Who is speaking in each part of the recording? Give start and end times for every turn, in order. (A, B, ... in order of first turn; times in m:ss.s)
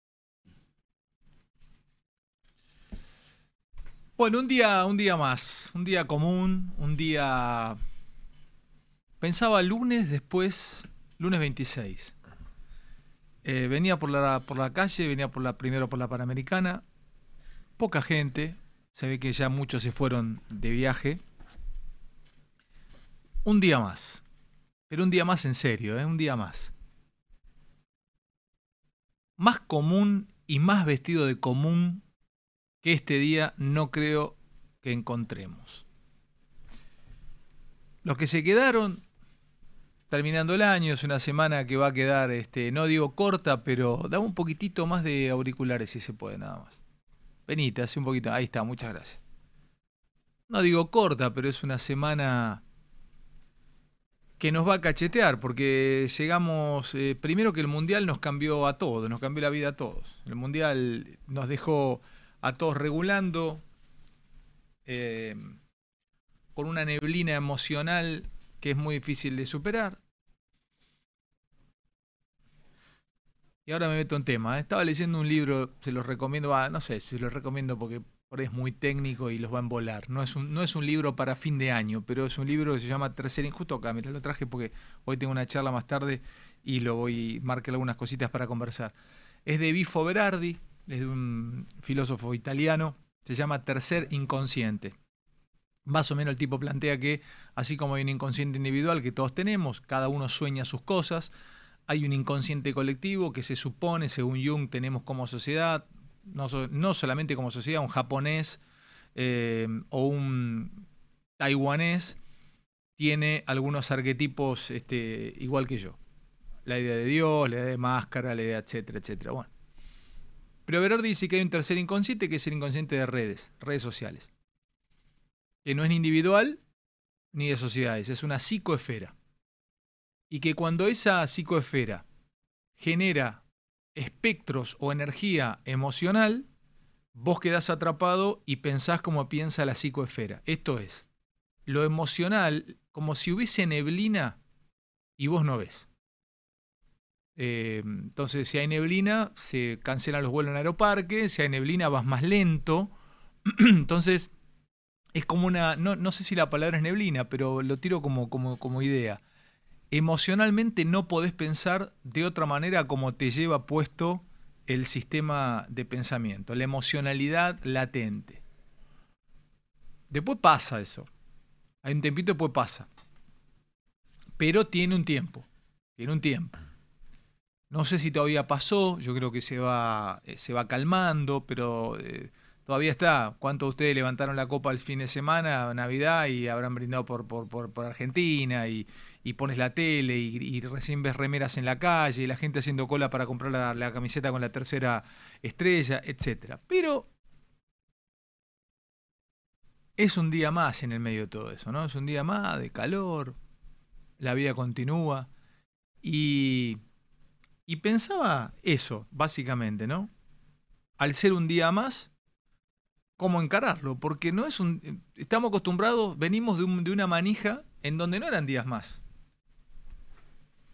0:04.2-0:07.8 A
0:09.2-0:12.1 A
0:13.4-0:16.8 A
0:17.8-0:21.2 A
0:23.4-0:24.2 A
0:24.9-0:26.7 A
0:29.4-0:32.0 A
0:32.8-0:35.8 A
0:38.0-0:39.0 A
0:40.1-0:46.8 A
0:47.5-0:49.2 A
0:50.5-0:52.6 A
0:54.4-1:03.6 A
1:04.8-1:05.6 A
1:06.5-1:10.0 A
1:13.6-1:28.9 A
1:29.4-1:34.9 A
1:35.8-1:41.3 A
1:41.9-1:48.6 A
1:49.1-1:50.8 A
1:51.4-1:52.2 A
1:53.0-1:56.0 A
1:56.6-1:59.5 A
2:00.7-2:04.3 A
2:05.6-2:06.6 A
2:07.3-2:09.1 A
2:10.3-2:12.0 A
2:12.8-2:13.4 A
2:13.9-2:16.5 A
2:17.1-2:21.0 A
2:21.7-2:24.4 A
2:25.2-2:25.9 A
2:27.4-2:32.9 A
2:33.4-2:34.3 A
2:35.1-2:39.2 A
2:39.9-2:48.4 A
2:50.1-2:51.1 A
2:51.8-2:52.9 A
2:54.4-2:55.4 A
2:56.0-2:56.6 A
2:57.7-3:17.1 A
3:20.0-3:23.4 A
3:24.2-3:25.3 A
3:26.0-3:26.8 A
3:27.7-3:30.1 A
3:31.0-3:32.1 A
3:33.2-3:39.0 A